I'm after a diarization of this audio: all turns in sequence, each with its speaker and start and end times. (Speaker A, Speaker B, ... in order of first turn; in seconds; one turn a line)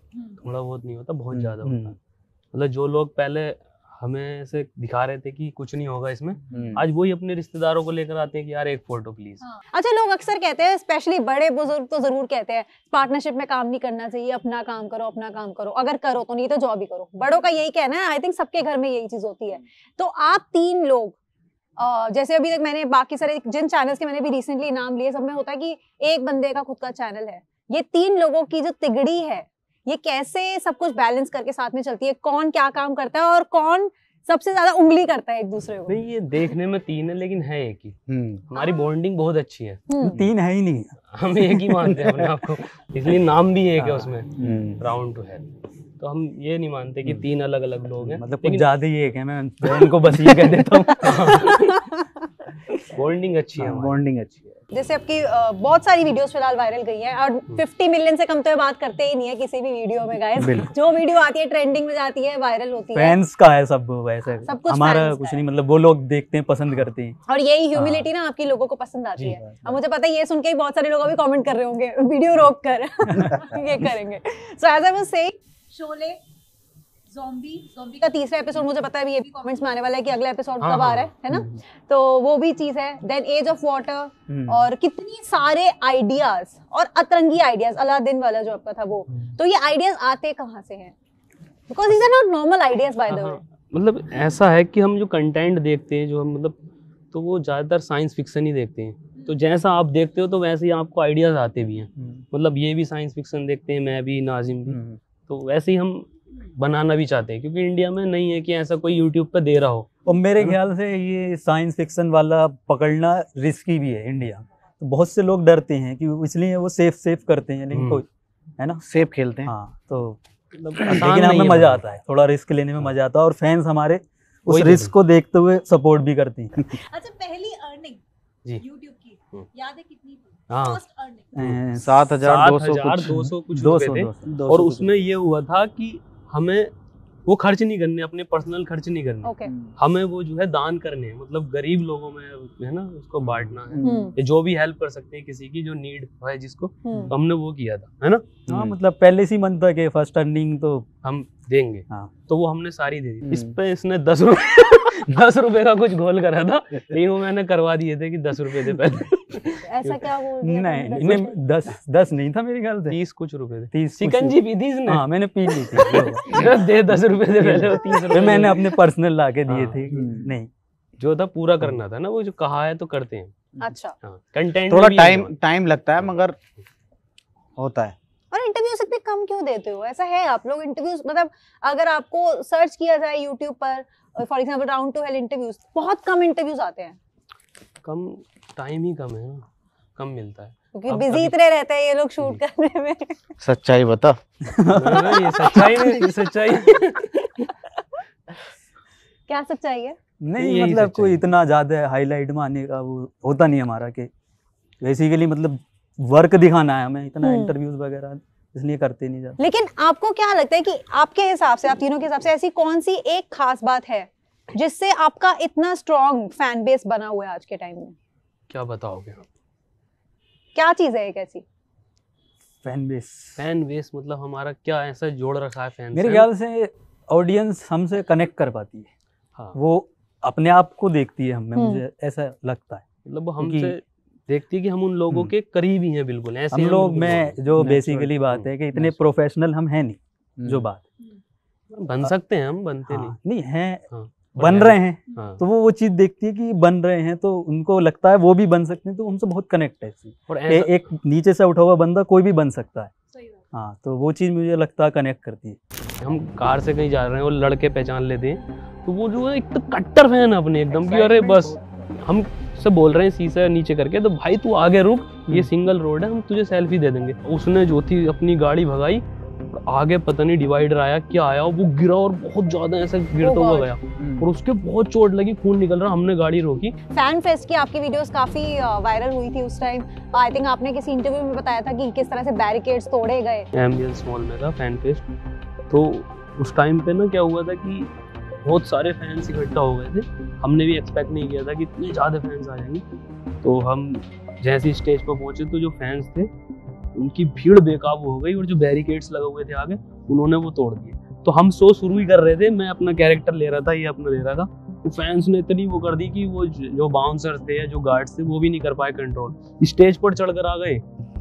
Speaker A: 0.4-1.9
Speaker B: 1.6-1.9
Speaker A: 2.5-9.4
Speaker C: 6.5-6.8
Speaker D: 9.5-21.2
Speaker D: 21.8-36.0
Speaker A: 35.9-39.9
Speaker C: 38.1-38.4
Speaker D: 38.5-38.9
Speaker D: 39.9-40.2
Speaker B: 40.0-41.0
Speaker A: 41.1-45.5
Speaker B: 41.5-42.0
Speaker B: 43.8-44.6
Speaker C: 44.4-44.8
Speaker A: 46.0-48.7
Speaker B: 48.0-51.7
Speaker A: 51.0-51.9
Speaker A: 52.9-54.0
Speaker C: 53.6-54.6
Speaker D: 54.7-63.2
Speaker B: 60.4-60.7
Speaker B: 62.9-67.2
Speaker D: 64.4-65.4
Speaker D: 67.2-76.2
Speaker B: 67.8-68.1
Speaker C: 69.4-69.8
Speaker B: 73.1-73.3
Speaker D: 77.1-90.9
Speaker A: 80.6-81.1
Speaker C: 84.3-84.6
Speaker D: 91.7-93.4
Speaker A: 93.1-96.6
Speaker A: 97.1-109.9
Speaker B: 102.0-102.2
Speaker B: 104.7-105.0
Speaker B: 110.0-118.0
Speaker A: 117.7-118.0
Speaker C: 118.8-119.5
Speaker B: 119.4-120.2
Speaker A: 120.5-121.8
Speaker B: 120.8-126.7
Speaker A: 124.5-124.9
Speaker D: 126.7-128.0
Speaker D: 128.6-131.3
Speaker A: 130.5-130.8
Speaker B: 131.3-132.2
Speaker C: 131.4-133.3
Speaker A: 132.2-136.7
Speaker B: 133.1-134.3
Speaker C: 134.2-135.0
Speaker A: 137.2-148.3
Speaker D: 139.2-139.5
Speaker C: 139.4-139.7
Speaker C: 143.2-144.0
Speaker D: 143.8-144.1
Speaker D: 146.8-147.1
Speaker C: 148.5-148.7
Speaker B: 148.5-150.9
Speaker A: 151.0-160.2
Speaker C: 153.2-153.5
Speaker D: 159.6-161.3
Speaker B: 160.4-163.0
Speaker A: 160.9-161.3
Speaker A: 162.9-168.8
Speaker B: 163.7-166.6
Speaker B: 167.4-170.5
Speaker A: 169.5-169.8
Speaker C: 169.9-170.3
Speaker A: 171.0-173.3
Speaker D: 173.6-173.9
Speaker A: 174.0-175.4
Speaker C: 174.7-176.4
Speaker C: 177.6-177.9
Speaker D: 178.3-187.0
Speaker A: 187.8-191.3
Speaker D: 190.7-193.2
Speaker C: 193.4-194.2
Speaker B: 194.4-195.8
Speaker A: 194.7-197.5
Speaker D: 199.3-199.9
Speaker B: 200.2-204.1
Speaker A: 200.4-201.2
Speaker B: 204.8-209.4
Speaker D: 207.2-207.5
Speaker D: 209.4-217.9
Speaker A: 218.5-219.2
Speaker D: 220.5-221.4
Speaker B: 222.6-223.4
Speaker A: 223.4-226.3
Speaker B: 225.9-228.9
Speaker B: 229.5-232.8
Speaker D: 231.5-231.8
Speaker A: 233.0-238.9
Speaker B: 233.4-233.7
Speaker B: 236.5-240.8
Speaker C: 237.6-238.1
Speaker C: 240.4-240.7
Speaker A: 241.7-243.2
Speaker B: 242.9-252.9
Speaker A: 243.9-245.4
Speaker A: 250.3-250.8
Speaker B: 253.5-255.6
Speaker A: 256.0-276.7
Speaker C: 260.7-261.9
Speaker D: 273.2-273.7
Speaker C: 274.0-274.2
Speaker D: 276.9-283.5
Speaker A: 283.5-285.1
Speaker A: 285.7-287.9
Speaker A: 288.4-292.8
Speaker A: 293.4-296.3
Speaker A: 296.9-310.8